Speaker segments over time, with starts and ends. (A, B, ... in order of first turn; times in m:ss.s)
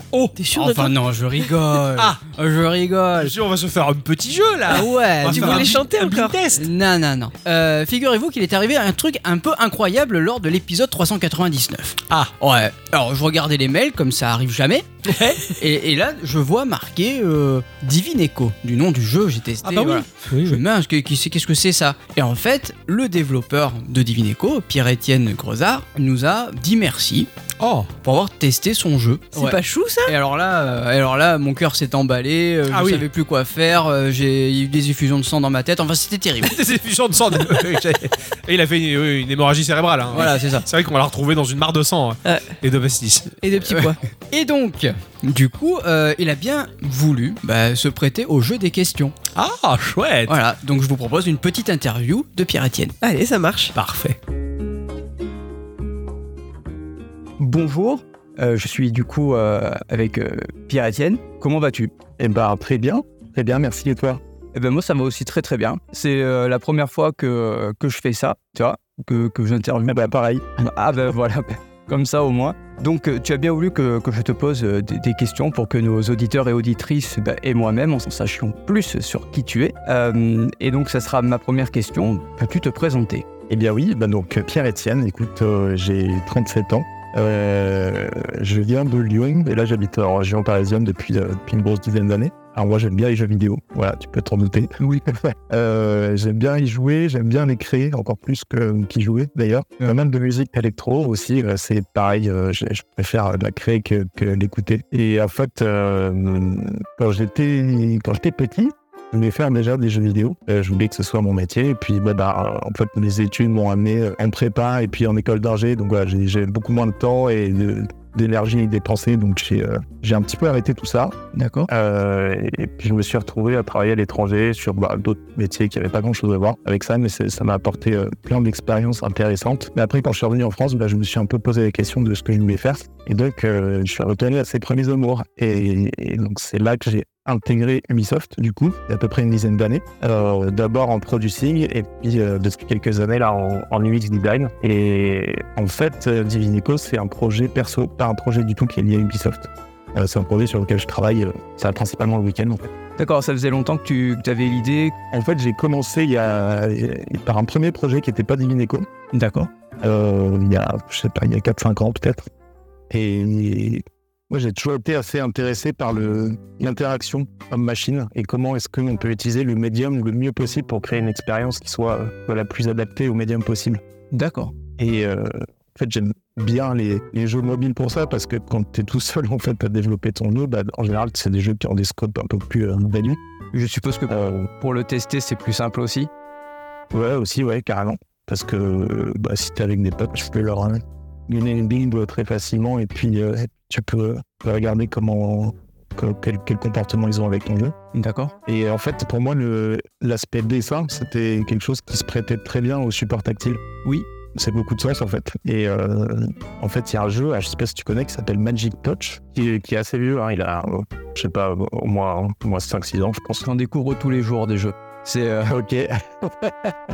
0:00.4-0:01.0 A
0:00.6-0:03.3 B
0:02.0-0:02.2 C
0:03.2-0:06.7 C
0:04.7-0:05.8 B
0:05.3-0:06.4 A
0:06.5-0:14.9 B
0:15.0-0:15.6 C
0:15.5-0:27.3 B
0:19.6-0:20.6 C
0:27.6-0:27.9 C
0:28.0-0:36.6 B
0:29.3-0:30.1 A
0:32.7-0:33.1 C
0:36.4-0:43.3 C
0:40.1-0:40.7 B
0:42.2-0:42.6 A
0:43.4-0:44.0 A
0:43.7-0:49.1 B
0:49.4-0:50.4 C
0:50.3-0:52.9 B
0:53.0-0:53.7 A
0:53.8-0:54.2 C
0:57.4-1:01.9 D
1:02.2-1:04.2 E
1:04.5-1:10.0 D
1:09.9-1:10.5 E
1:10.6-1:23.3 D
1:23.5-2:32.7 E
1:34.8-1:35.1 D
2:01.3-2:01.7 D
2:33.0-2:35.0 D
2:35.1-2:38.9 E
2:39.1-2:39.5 D
2:39.8-2:42.3 E
2:42.9-2:53.8 E
2:54.1-2:54.5 D
2:54.8-3:03.2 E
3:03.5-3:06.1 D
3:04.1-3:04.5 E
3:06.9-3:17.8 E
3:17.9-3:18.3 D
3:18.5-3:23.6 E
3:24.3-3:33.4 E
3:33.4-3:35.5 D
3:35.5-3:36.8 E